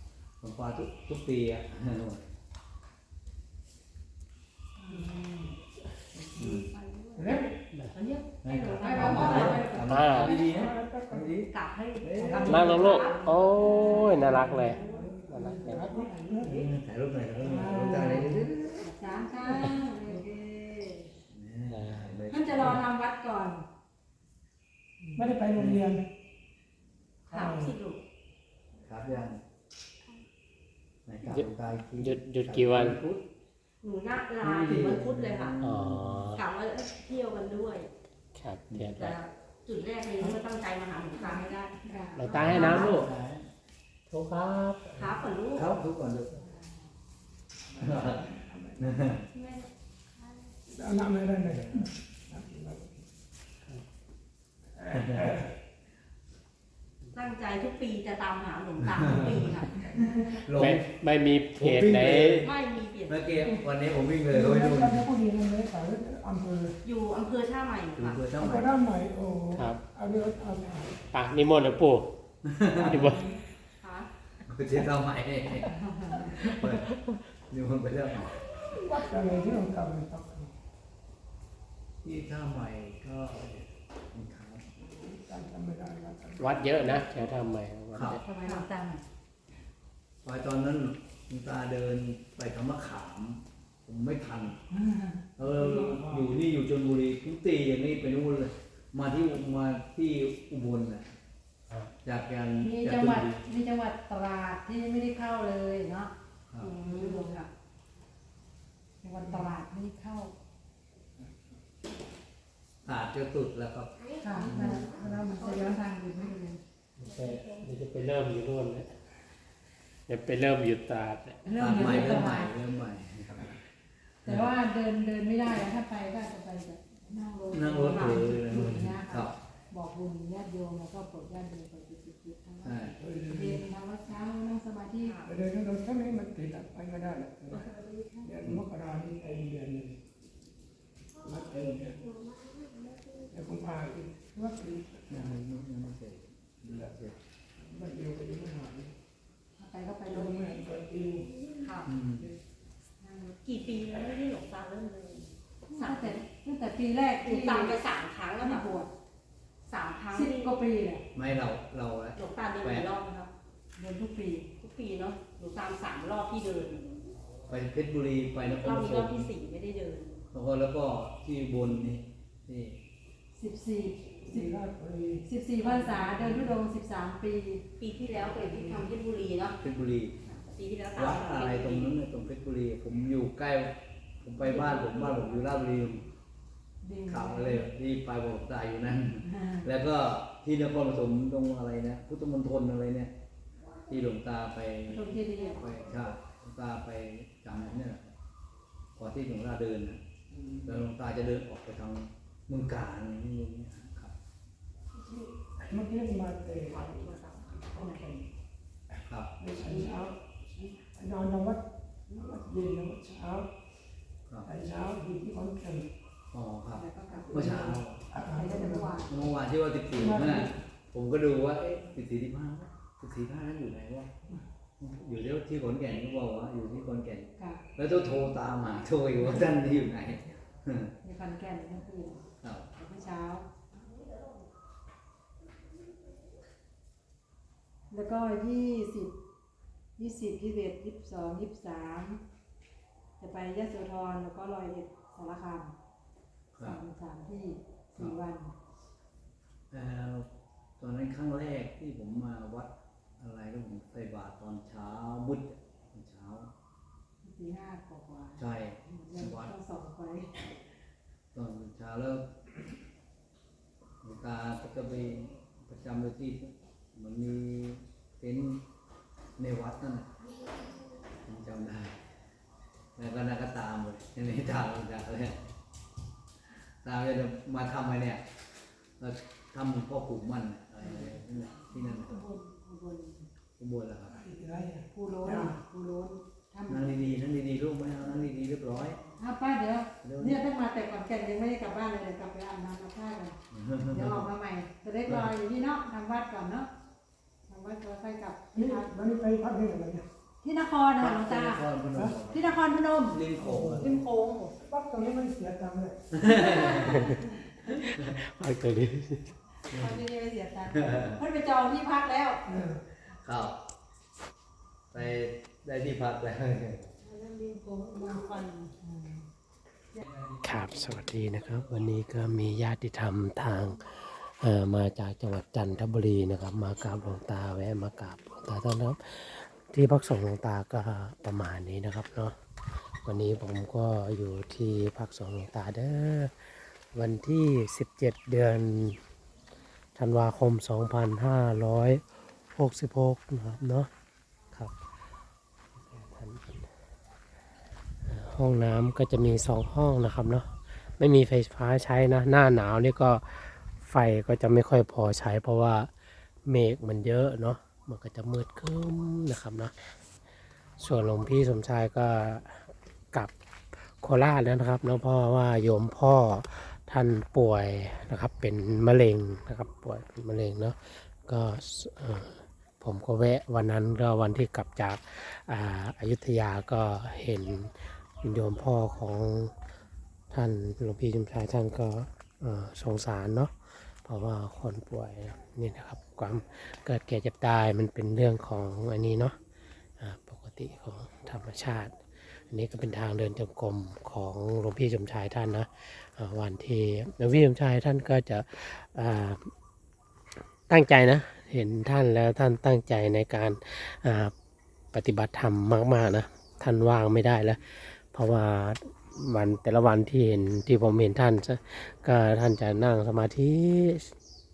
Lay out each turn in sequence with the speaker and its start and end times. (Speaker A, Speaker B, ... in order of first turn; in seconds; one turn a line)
Speaker A: 0.4-2.3
Speaker B: 4.9-5.4
Speaker C: 4.9-5.5
Speaker C: 6.1-6.5
Speaker A: 6.4-6.7
Speaker B: 6.4-10.7
Speaker C: 7.2-7.5
Speaker A: 8.4-12.7
Speaker D: 8.8-9.9
Speaker E: 9.3-10.4
Speaker C: 10.0-11.3
Speaker B: 11.5-15.0
Speaker C: 12.2-16.7
Speaker E: 12.4-15.9
Speaker A: 16.4-18.9
Speaker C: 17.4-18.6
Speaker D: 18.8-20.8
Speaker C: 19.4-19.8
Speaker B: 19.7-21.1
Speaker A: 21.3-22.9
Speaker E: 21.7-22.8
Speaker D: 22.3-23.7
Speaker C: 25.2-26.0
Speaker A: 25.6-25.8
Speaker B: 27.3-28.0
Speaker C: 27.3-27.8
Speaker A: 28.8-29.4
Speaker A: 31.1-33.2
Speaker E: 31.3-33.0
Speaker B: 33.8-35.5
Speaker A: 34.4-36.3
Speaker E: 35.6-36.5
Speaker B: 36.3-37.9
Speaker E: 38.3-39.2
Speaker A: 38.7-39.0
Speaker B: 39.0-41.5
Speaker D: 41.1-42.9
Speaker E: 42.2-43.1
Speaker A: 42.3-43.5
Speaker B: 42.4-42.9
Speaker E: 44.1-45.2
Speaker B: 45.0-45.7
Speaker A: 45.5-46.4
Speaker C: 47.7-48.9
Speaker A: 47.8-49.3
Speaker B: 49.3-49.7
Speaker C: 50.7-53.0
Speaker C: 54.7-55.5
Speaker A: 54.9-55.3
Speaker B: 57.1-59.9
Speaker A: 58.8-60.9
Speaker C: 59.9-60.4
Speaker E: 60.5-62.5
Speaker A: 61.5-62.5
Speaker B: 62.4-63.3
Speaker A: 63.1-65.1
Speaker C: 64.3-66.8
Speaker B: 66.8-68.2
Speaker A: 68.0-68.8
Speaker C: 68.3-71.1
Speaker E: 69.5-69.8
Speaker E: 71.1-72.2
Speaker A: 72.5-73.1
Speaker E: 72.8-73.2
Speaker B: 72.8-74.1
Speaker A: 74.4-77.0
Speaker B: 75.7-76.5
Speaker A: 77.5-78.4
Speaker C: 78.6-80.5
Speaker A: 82.0-84.6
Speaker C: 84.8-87.0
Speaker E: 86.4-88.2
Speaker A: 87.9-88.2
Speaker B: 88.3-88.7
Speaker D: 88.3-89.0
Speaker A: 90.2-94.6
Speaker A: 95.4-101.1
Speaker C: 95.4-96.3
Speaker A: 102.0-103.4
Speaker D: 102.6-106.1
Speaker A: 106.5-106.8
Speaker B: 106.6-107.5
Speaker D: 106.8-107.4
Speaker D: 109.0-110.3
Speaker C: 109.2-109.5
Speaker A: 112.8-115.2
Speaker D: 114.2-116.6
Speaker E: 117.0-118.9
Speaker E: 120.1-122.2
Speaker D: 121.4-122.5
Speaker A: 121.5-123.6
Speaker A: 124.2-124.5
Speaker D: 124.2-135.1
Speaker A: 127.5-129.3
Speaker B: 127.8-128.3
Speaker A: 132.6-132.9
Speaker C: 132.9-133.6
Speaker B: 135.0-135.3
Speaker C: 135.2-140.0
Speaker B: 137.5-138.2
Speaker C: 141.2-142.1
Speaker C: 143.3-145.3
Speaker A: 145.1-147.2
Speaker C: 147.6-148.9
Speaker D: 149.6-150.5
Speaker C: 150.0-151.3
Speaker B: 151.6-151.9
Speaker A: 151.8-152.3
Speaker B: 153.0-156.2
Speaker D: 155.7-157.8
Speaker B: 157.2-158.7
Speaker D: 158.4-158.9
Speaker B: 159.7-160.5
Speaker D: 160.1-161.0
Speaker A: 161.1-162.9
Speaker B: 162.2-163.3
Speaker D: 163.8-164.5
Speaker B: 164.6-166.9
Speaker A: 167.5-169.3
Speaker B: 168.5-170.2
Speaker A: 170.3-172.8
Speaker D: 173.3-174.5
Speaker C: 174.2-176.6
Speaker D: 175.2-177.6
Speaker B: 177.8-179.6
Speaker C: 178.2-178.9
Speaker A: 179.6-180.2
Speaker B: 180.2-181.9
Speaker A: 180.9-186.1
Speaker B: 184.4-185.3
Speaker D: 186.8-187.7
Speaker A: 187.1-193.1
Speaker D: 189.2-189.7
Speaker A: 193.9-198.1
Speaker D: 194.9-195.7
Speaker A: 198.9-200.0
Speaker C: 200.3-200.8
Speaker A: 200.6-204.1
Speaker C: 204.9-208.3
Speaker C: 209.4-213.5
Speaker C: 214.4-215.9
Speaker A: 216.3-218.0
Speaker D: 216.8-217.8
Speaker C: 218.1-219.0
Speaker D: 218.3-219.2
Speaker A: 219.1-224.1
Speaker C: 219.9-220.6
Speaker A: 224.8-230.9
Speaker D: 227.4-227.6
Speaker D: 231.0-233.5
Speaker A: 232.4-232.7
Speaker D: 237.9-239.1
Speaker D: 240.0-242.2
Speaker D: 243.2-245.8
Speaker A: 246.5-246.8
Speaker D: 246.6-248.5
Speaker A: 249.7-250.3
Speaker A: 250.8-256.5
Speaker D: 257.2-260.5
Speaker A: 258.4-259.5
Speaker A: 261.3-262.3
Speaker A: 264.0-268.6
Speaker A: 269.4-270.1
Speaker A: 271.2-272.0
Speaker A: 272.9-275.4
Speaker A: 276.8-278.2
Speaker A: 279.0-282.2
Speaker D: 281.8-283.3
Speaker A: 283.6-284.2
Speaker C: 284.1-285.6
Speaker D: 284.9-287.2
Speaker A: 286.7-289.0
Speaker D: 289.1-293.4
Speaker A: 290.0-290.4
Speaker A: 293.5-294.2
Speaker D: 293.9-296.7
Speaker A: 295.1-295.3
Speaker D: 297.5-298.9
Speaker C: 298.5-300.1
Speaker D: 300.4-301.6
Speaker A: 301.0-303.9
Speaker C: 301.9-302.2
Speaker D: 302.2-304.5
Speaker C: 303.4-306.2
Speaker A: 306.1-307.1
Speaker D: 306.3-306.8
Speaker E: 306.8-309.4
Speaker A: 309.7-310.0
Speaker D: 309.8-312.4
Speaker A: 310.7-311.2
Speaker C: 312.4-312.8
Speaker A: 313.2-313.6
Speaker A: 314.9-316.9
Speaker D: 317.1-319.2
Speaker E: 320.4-332.3
Speaker E: 333.0-339.0
Speaker E: 339.9-343.9
Speaker E: 345.9-346.7
Speaker E: 348.1-355.9
Speaker E: 356.5-359.7
Speaker E: 360.8-363.3
Speaker E: 364.0-379.5
Speaker E: 380.3-389.4
Speaker E: 390.0-391.9
Speaker E: 392.5-399.5
Speaker E: 400.7-404.3
Speaker E: 404.9-414.1